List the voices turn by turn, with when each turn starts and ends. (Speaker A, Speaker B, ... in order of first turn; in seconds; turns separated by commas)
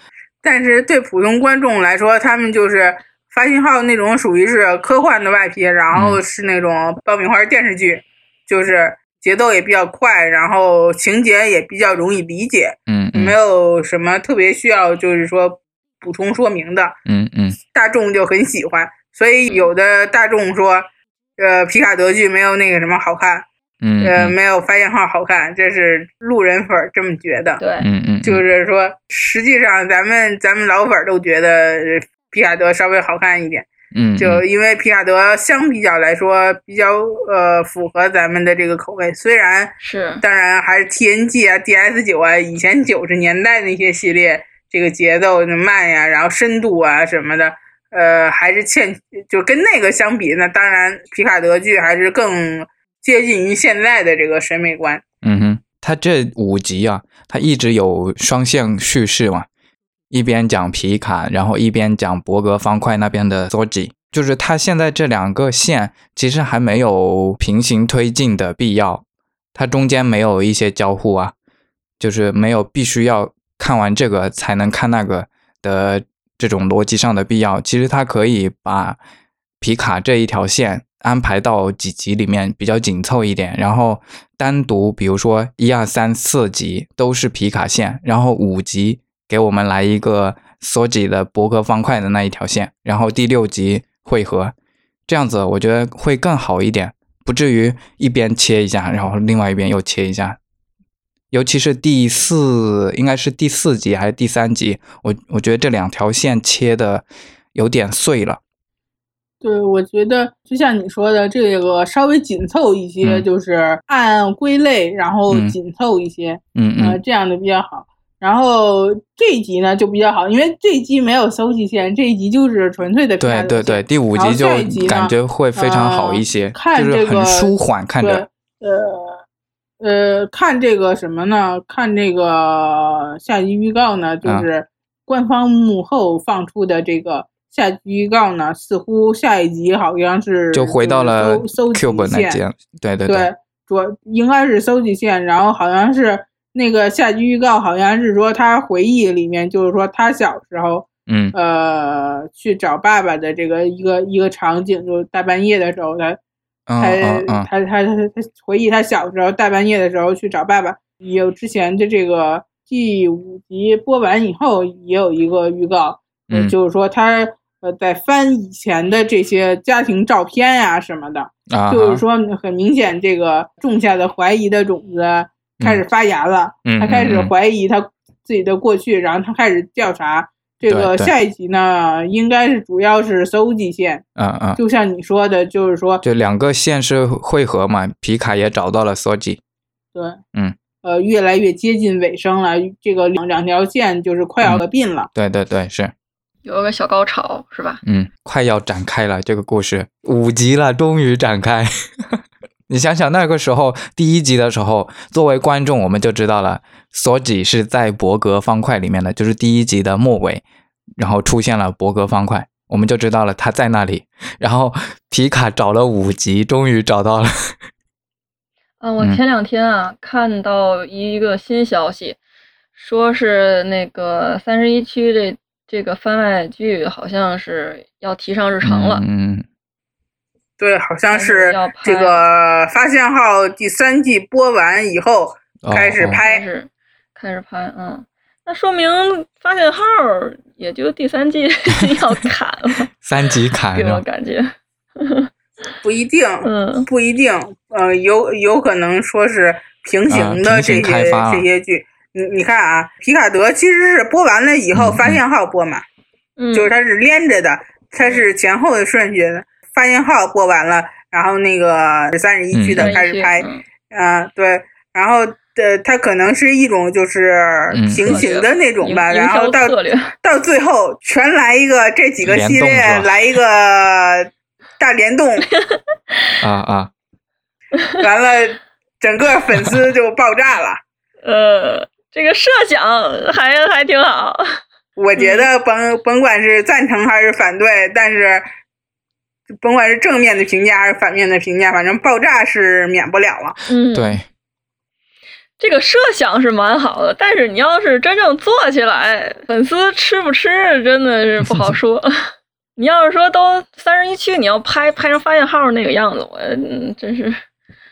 Speaker A: 0.4-17.0, Speaker B: 5.9-6.2, Speaker B: 12.9-13.3, Speaker B: 17.1-17.6, Speaker A: 17.6-20.8, Speaker A: 21.4-23.4, Speaker B: 23.8-24.3, Speaker A: 24.0-27.6, Speaker C: 27.6-27.9, Speaker B: 27.8-28.4, Speaker A: 28.2-33.7, Speaker B: 33.9-34.4, Speaker A: 34.2-55.0, Speaker C: 39.8-40.2, Speaker B: 55.2-59.5, Speaker B: 60.1-69.0, Speaker B: 69.5-71.3, Speaker B: 72.0-79.0, Speaker B: 79.6-94.5, Speaker B: 95.1-100.4, Speaker B: 101.3-108.4, Speaker A: 109.4-129.2, Speaker B: 115.3-115.6, Speaker B: 116.6-117.0, Speaker B: 123.2-128.2, Speaker A: 129.8-142.4, Speaker B: 140.5-143.3, Speaker A: 143.1-156.2, Speaker B: 151.1-151.3, Speaker B: 156.7-157.5, Speaker A: 156.8-184.0, Speaker B: 166.3-166.6, Speaker B: 171.5-172.0, Speaker B: 175.6-175.8, Speaker B: 176.6-177.3, Speaker B: 180.7-181.1, Speaker B: 184.2-184.6, Speaker A: 184.6-186.0, Speaker B: 186.0-189.4, Speaker A: 189.9-190.2, Speaker A: 190.8-195.1, Speaker B: 195.1-195.9, Speaker C: 196.4-197.8, Speaker B: 197.8-210.4, Speaker B: 211.0-217.6, Speaker C: 218.8-222.2, Speaker C: 222.8-229.0, Speaker B: 228.6-229.4, Speaker A: 230.6-236.4, Speaker C: 231.1-232.2, Speaker B: 235.6-236.2, Speaker C: 236.2-242.9, Speaker B: 243.0-244.0, Speaker C: 243.7-245.6, Speaker A: 245.8-255.8, Speaker C: 246.4-246.9, Speaker B: 250.1-251.4, Speaker B: 254.7-255.2, Speaker C: 256.4-256.7, Speaker A: 256.5-275.5, Speaker B: 262.5-262.9, Speaker C: 262.8-263.6, Speaker B: 267.7-268.2, Speaker C: 268.0-270.1, Speaker B: 272.2-273.1, Speaker C: 275.6-276.3, Speaker B: 276.4-276.9, Speaker C: 277.8-278.0, Speaker A: 278.0-280.8, Speaker C: 281.2-284.6, Speaker A: 284.9-288.4, Speaker C: 285.1-285.5, Speaker A: 289.6-293.6, Speaker C: 293.7-294.2, Speaker B: 293.9-294.2, Speaker C: 295.6-307.4, Speaker B: 301.4-301.7